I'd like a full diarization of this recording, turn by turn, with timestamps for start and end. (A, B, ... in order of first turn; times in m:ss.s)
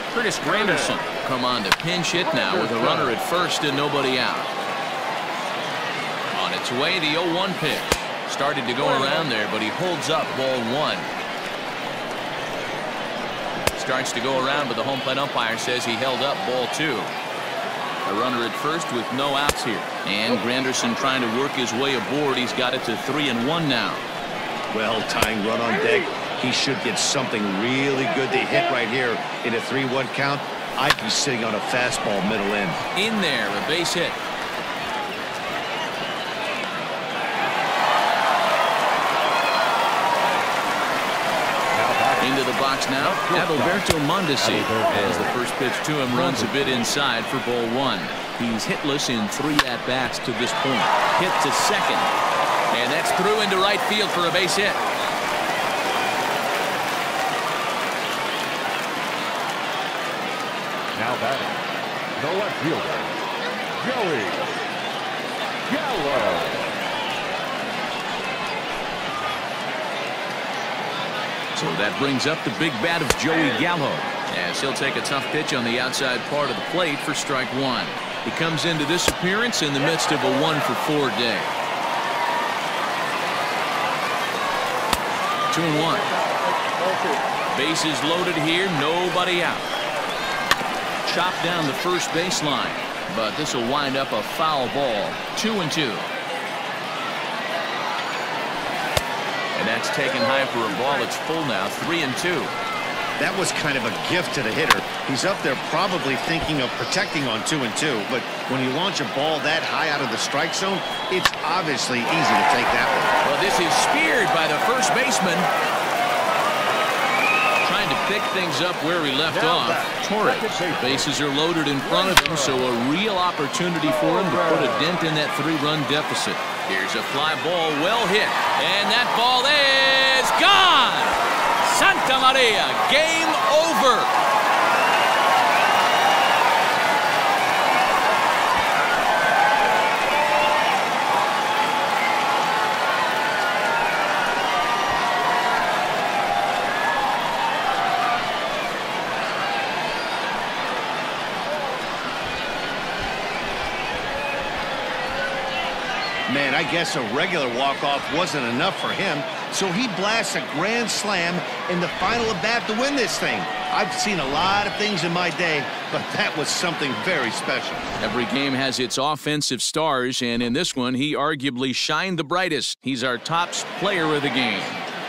0:00.1-0:04.5 A
0:00.6-0:00.9 B
0:02.2-0:03.2 B
0:06.3-0:11.1 A
0:13.7-0:17.1 A
0:18.0-0:24.0 A
0:24.7-0:32.8 C
0:32.9-0:34.2 A
0:41.7-0:42.4 B
0:42.2-0:52.1 A
0:43.0-0:43.8 B
0:44.4-0:45.4 B
0:46.1-0:46.8 B
0:52.7-0:54.8 A
1:01.0-1:01.6 B
1:02.2-1:03.1 B
1:03.8-1:04.5 B
1:05.7-1:06.6 B
1:11.5-1:21.5 A
1:25.5-1:26.1 A
1:27.5-1:29.7 A
1:31.0-1:36.1 A
1:39.5-1:42.5 A
1:43.2-1:53.1 C
1:53.2-1:55.5 A
1:57.6-2:14.1 A
1:59.3-2:01.1 B
2:01.8-2:02.7 B
2:03.8-2:05.0 B
2:36.3-2:47.9 C
2:48.0-2:54.8 A